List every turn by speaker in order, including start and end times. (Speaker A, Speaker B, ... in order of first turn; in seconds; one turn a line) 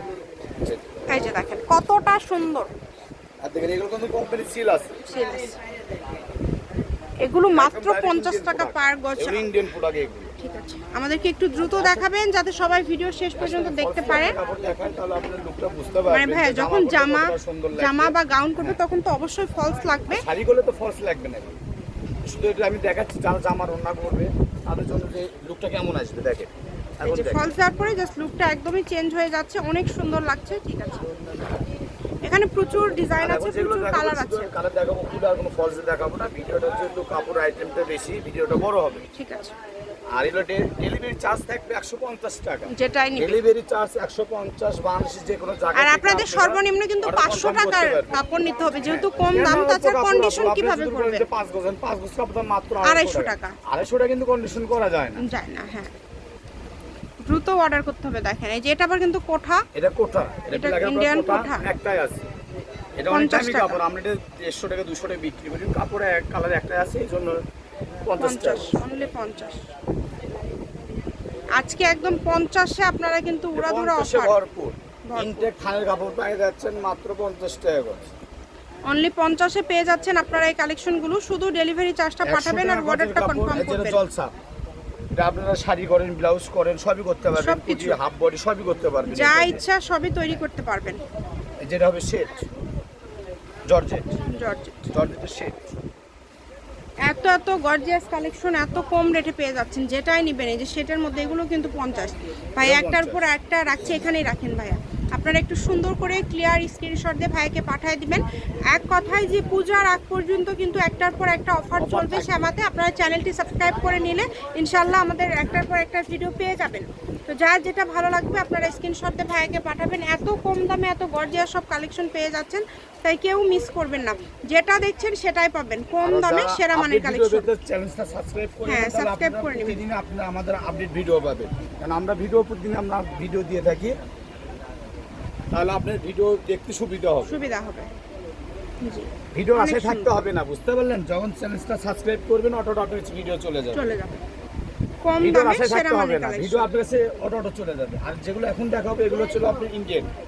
Speaker A: 0.6-1.1
Speaker B: 1.1-2.7
Speaker A: 3.4-4.9
Speaker B: 5.0-5.5
Speaker B: 7.2-9.5
Speaker A: 7.5-10.3
Speaker B: 10.4-14.4
Speaker A: 11.7-12.1
Speaker A: 13.4-18.8
Speaker B: 16.1-20.2
Speaker A: 20.1-21.6
Speaker A: 22.2-26.5
Speaker A: 27.0-27.5
Speaker B: 27.0-31.1
Speaker B: 32.2-34.5
Speaker A: 33.2-39.0
Speaker B: 39.1-39.5
Speaker A: 40.1-48.2
Speaker B: 42.7-43.4
Speaker B: 45.8-51.3
Speaker A: 48.7-55.2
Speaker B: 52.8-53.5
Speaker B: 55.2-55.9
Speaker B: 57.3-59.6
Speaker A: 59.7-62.2
Speaker B: 60.5-61.6
Speaker A: 63.0-67.4
Speaker B: 63.1-63.8
Speaker A: 68.0-68.8
Speaker B: 68.2-69.6
Speaker B: 71.6-74.4
Speaker A: 73.5-78.1
Speaker B: 75.1-75.5
Speaker B: 78.9-84.0
Speaker A: 82.2-84.3
Speaker A: 85.2-89.6
Speaker B: 87.4-88.0
Speaker B: 89.1-91.0
Speaker A: 91.6-92.5
Speaker A: 93.7-94.1
Speaker B: 94.3-94.8
Speaker A: 94.9-95.6
Speaker B: 97.0-127.5
Speaker A: 102.6-103.3
Speaker A: 111.8-112.3
Speaker A: 126.0-134.0
Speaker B: 128.7-129.8
Speaker A: 135.5-137.3
Speaker B: 137.2-137.9
Speaker B: 138.8-140.1
Speaker A: 139.3-143.9
Speaker B: 143.7-144.2
Speaker B: 145.1-146.7
Speaker A: 145.2-150.1